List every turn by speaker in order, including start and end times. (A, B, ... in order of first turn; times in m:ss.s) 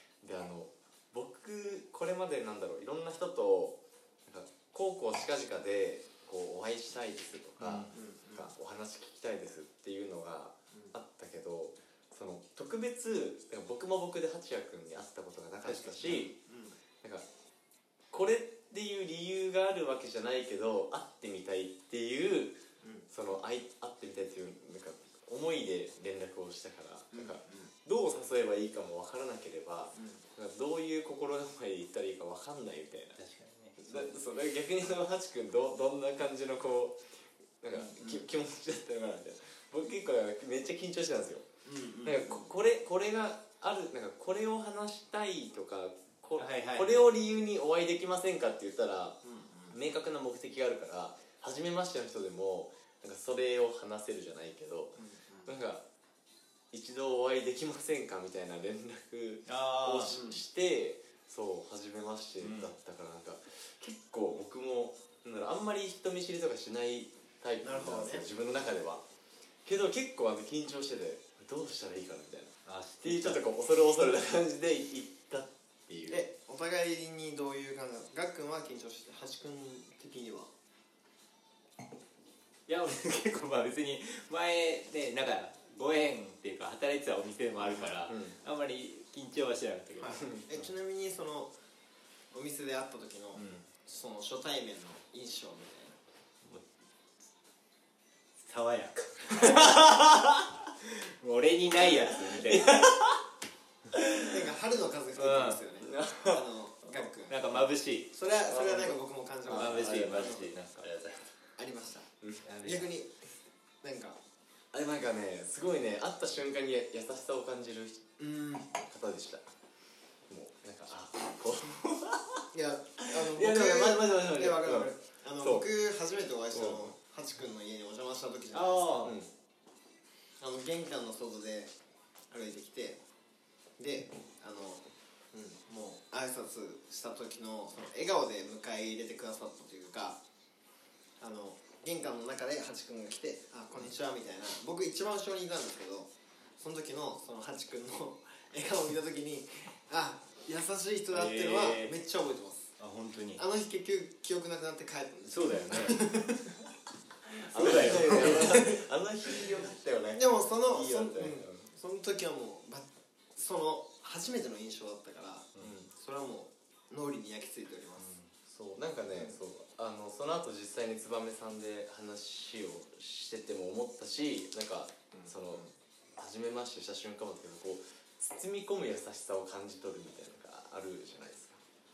0:00.2-0:16.4 A
0:07.6-0:08.0 B
0:07.9-0:08.5 C
0:15.6-0:16.8 C
0:18.1-0:33.2 A
0:27.1-0:27.7 C
0:30.0-0:30.2 C
0:33.2-0:34.1 B
0:33.8-0:41.5 A
0:41.6-0:42.5 C
0:42.0-0:55.8 A
0:46.4-0:47.1 B
0:49.2-0:49.8 C
0:55.0-0:55.6 C
0:56.7-1:09.0 A
0:59.5-1:00.2 B
1:00.1-1:00.4 C
1:02.4-1:02.7 B
1:07.6-1:08.3 C
1:09.6-1:16.2 A
1:12.6-1:13.4 B
1:16.1-1:20.5 C
1:22.7-1:30.7 B
1:27.7-1:28.4 A
1:30.0-1:31.5 C
1:30.2-1:30.4 A
1:32.3-1:36.0 C
1:33.4-1:33.6 B
1:38.4-1:39.8 B
1:39.6-1:40.1 A
1:40.8-1:42.9 B
1:41.8-1:43.2 A
1:43.9-1:44.3 A
1:44.2-1:47.4 C
1:45.2-1:45.6 B
1:45.8-1:46.5 A
1:47.3-1:48.1 B
1:48.1-1:50.5 C
1:48.5-1:50.5 A
1:49.5-1:51.2 B
1:51.6-1:52.1 C
1:52.4-1:52.9 B
1:52.6-1:53.2 C
1:53.8-1:54.2 C
1:54.7-1:58.1 A
1:58.2-1:58.7 C
1:58.8-1:59.5 A
2:00.3-2:02.5 A
2:02.5-2:08.9 C
2:03.0-2:05.7 A
2:06.5-2:06.9 A
2:08.5-2:09.2 B
2:09.0-2:09.3 A
2:10.4-2:11.7 C
2:12.3-2:13.0 C
2:13.8-2:20.2 C
2:21.2-2:32.8 C
2:31.1-2:32.0 B
2:32.8-2:33.4 B
2:33.4-2:36.6 C
2:35.3-2:36.1 B
2:37.3-2:41.7 A
2:37.6-2:38.8 B
2:37.6-2:38.8 C
2:40.2-2:48.1 C
2:45.6-2:45.9 A
2:48.0-2:48.3 B
2:48.5-2:55.6 A
2:49.1-2:49.4 C
2:55.1-2:55.7 C
2:56.2-3:01.6 A